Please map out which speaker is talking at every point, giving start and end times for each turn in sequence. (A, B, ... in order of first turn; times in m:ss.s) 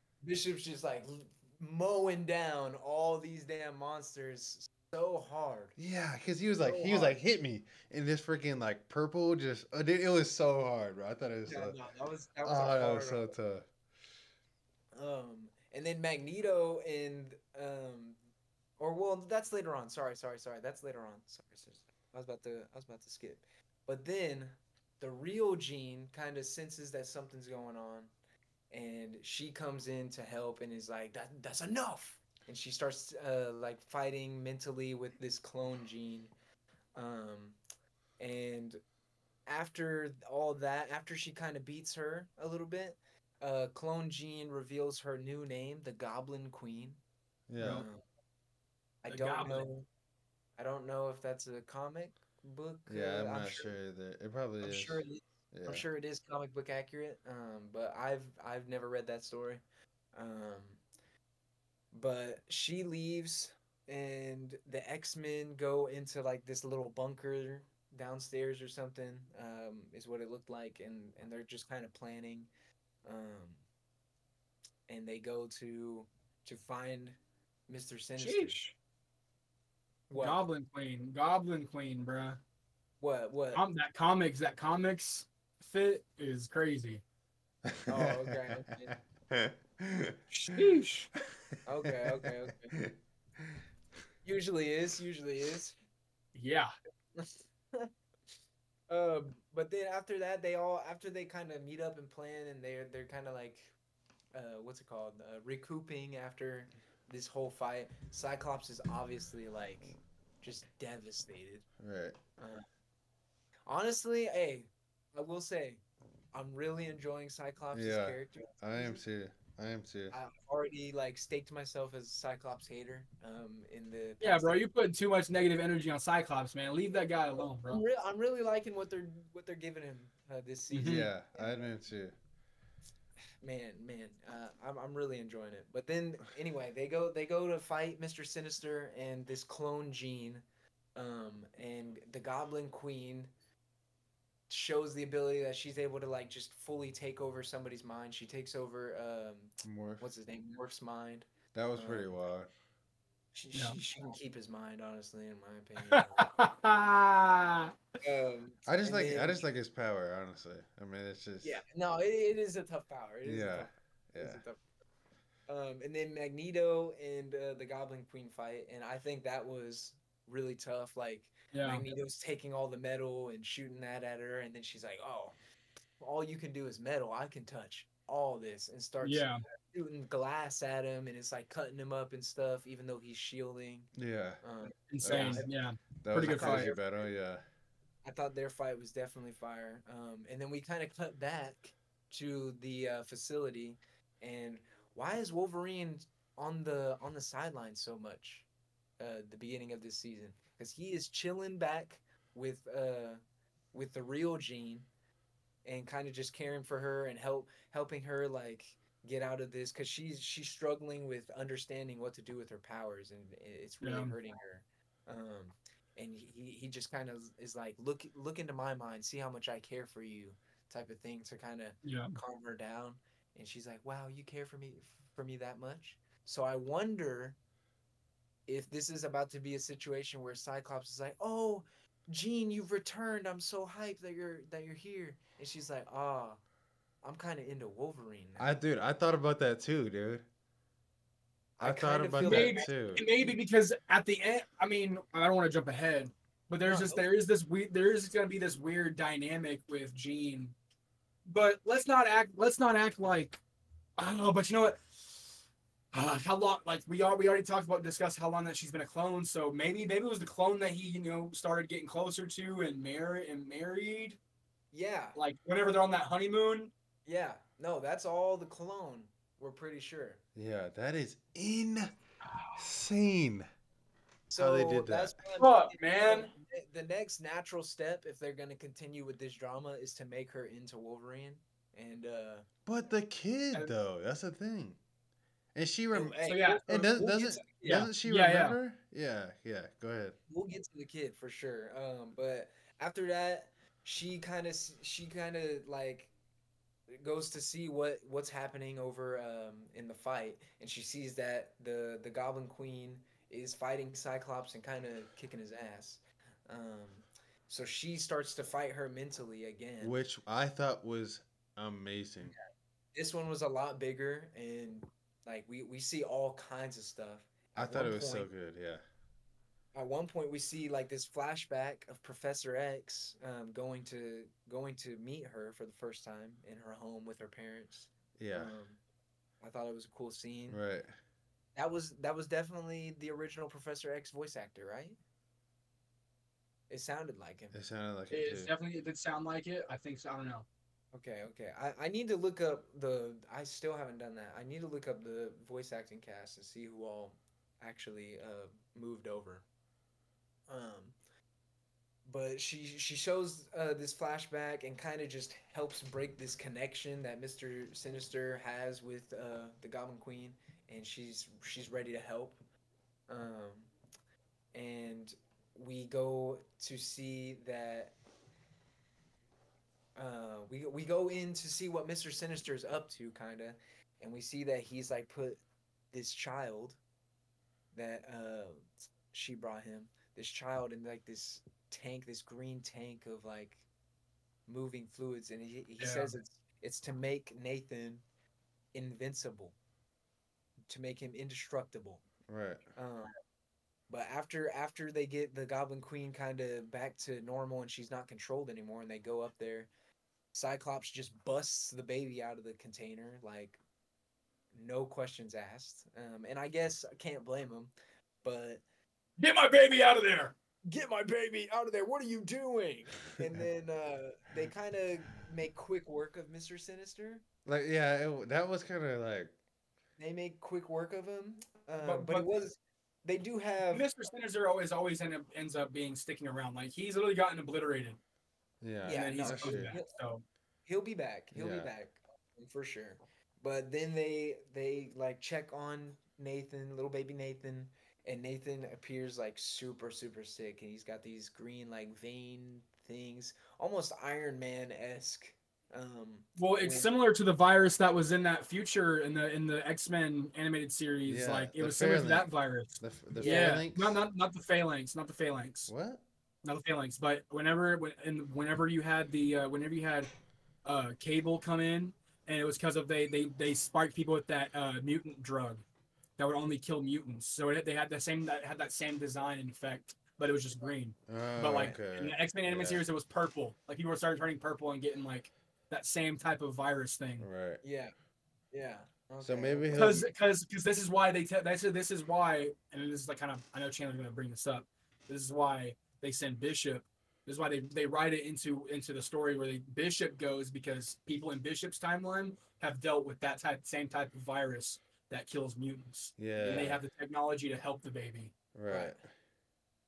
0:00.2-0:05.8 A
0:05.8-0:11.8 B
0:06.6-0:07.2 A
0:11.5-0:13.3 A
0:12.4-0:13.7 B
0:15.0-0:18.2 A
0:18.8-0:28.1 A
0:28.7-0:36.3 A
0:37.0-0:37.6 A
0:38.2-0:38.8 A
0:39.5-0:47.0 A
0:47.5-0:47.8 B
0:47.6-0:47.9 C
0:47.6-0:48.0 A
0:49.0-0:49.9 A
0:49.1-0:49.7 C
0:50.6-0:53.7 A
0:52.9-0:55.9 B
0:54.6-0:59.6 A
1:00.1-1:00.8 A
1:01.9-1:12.5 A
1:13.0-1:13.6 A
1:14.9-1:18.6 A
1:18.2-1:18.8 C
1:20.1-1:20.4 A
1:20.2-1:22.4 C
1:23.0-1:23.6 A
1:23.6-1:27.0 C
1:27.7-1:30.2 B
1:27.9-1:29.0 A
1:30.3-1:31.1 C
1:31.6-1:32.8 A
1:32.8-1:33.6 B
1:34.2-1:35.8 A
1:36.4-1:36.7 C
1:37.2-1:37.9 A
1:38.9-1:43.7 A
1:44.3-1:51.7 A
1:51.8-1:52.2 B
1:52.4-1:52.6 A
1:53.7-1:55.8 A
1:56.3-1:59.0 A
1:57.7-2:00.2 B
2:00.1-2:04.6 A
2:04.2-2:07.8 C
2:06.9-2:11.6 A
2:10.7-2:11.1 C
2:10.8-2:12.2 B
2:13.4-2:20.4 A
2:21.0-2:23.3 A
2:24.5-2:32.1 A
2:29.6-2:30.1 B
2:31.5-2:32.5 B
2:33.3-2:36.3 A
2:35.9-2:37.7 C
2:38.0-2:39.4 A
2:38.7-2:41.6 B
2:41.4-2:44.6 A
2:43.2-2:44.4 B
2:45.5-2:55.4 A
2:51.5-2:51.8 C
2:56.0-3:03.9 A
2:59.0-2:59.4 C
3:04.0-3:04.4 B
3:04.4-3:05.5 A
3:04.9-3:06.7 C
3:05.0-3:05.4 B
3:06.0-3:07.4 B
3:06.2-3:06.8 A
3:08.0-3:18.5 A
3:19.0-3:23.2 A
3:23.7-3:24.9 A
3:25.6-3:47.4 A
3:33.8-3:34.1 C
3:41.8-3:42.2 C
3:48.5-3:56.4 A
3:57.0-3:58.6 A
3:58.4-4:00.3 B
4:01.6-4:02.7 A
4:01.6-4:03.1 B
4:02.2-4:10.6 C
4:06.6-4:07.1 A
4:11.3-4:13.4 C
4:14.0-4:15.4 C
4:15.9-4:24.2 C
4:24.7-4:25.2 A
4:25.2-4:26.7 C
4:27.1-4:30.2 A
4:30.4-4:31.9 B
4:32.3-4:32.6 C
4:32.6-4:33.5 B
4:34.3-4:42.5 A
4:34.4-4:35.2 B
4:35.4-4:36.3 C
4:42.7-4:44.8 B
4:45.6-4:50.2 B
4:45.9-4:47.9 A
4:46.2-4:46.6 C
4:47.6-4:48.6 C
4:50.3-4:56.1 A
4:56.9-5:10.0 A
5:09.8-5:12.4 B
5:13.0-5:18.3 A
5:17.6-5:18.8 B
5:19.8-5:28.8 A
5:28.2-5:28.5 B
5:29.4-5:30.6 A
5:30.5-5:30.9 B
5:31.6-5:35.0 A
5:36.7-5:37.6 A
5:37.5-5:38.5 B
5:38.1-5:40.5 C
5:40.9-5:49.5 A
5:50.5-5:51.0 A
5:52.0-6:02.4 A
6:03.1-6:03.7 A
6:04.5-6:08.0 A
6:10.0-6:16.8 A
6:17.7-6:23.6 A
6:24.5-6:28.0 A
6:25.8-6:26.1 C
6:28.7-6:29.6 A
6:30.7-6:32.0 A
6:32.3-6:32.6 B
6:32.8-6:33.1 A
6:33.9-6:39.7 A
6:40.3-6:43.6 A
6:44.5-6:48.6 A
6:49.2-6:50.4 C
6:50.7-6:57.2 A
6:57.5-6:59.3 B
7:00.0-7:03.9 A
7:01.8-7:02.3 C
7:03.7-7:08.0 C
7:08.6-7:09.8 B
7:08.9-7:09.9 A
7:08.9-7:10.2 C
7:10.7-7:26.9 A
7:11.3-7:11.7 B
7:26.4-7:35.7 C
7:31.1-7:34.0 B
7:33.2-7:33.6 A
7:35.7-7:36.0 B
7:36.4-7:40.1 C
7:40.6-7:45.6 C
7:46.2-7:57.3 C
7:51.1-7:52.8 B
7:57.2-7:57.6 B
7:57.6-7:57.9 A
7:58.5-7:59.9 A
7:59.2-8:00.1 B
7:59.7-8:18.3 C
8:16.2-8:16.8 B
8:18.6-8:19.1 B
8:18.7-8:19.0 A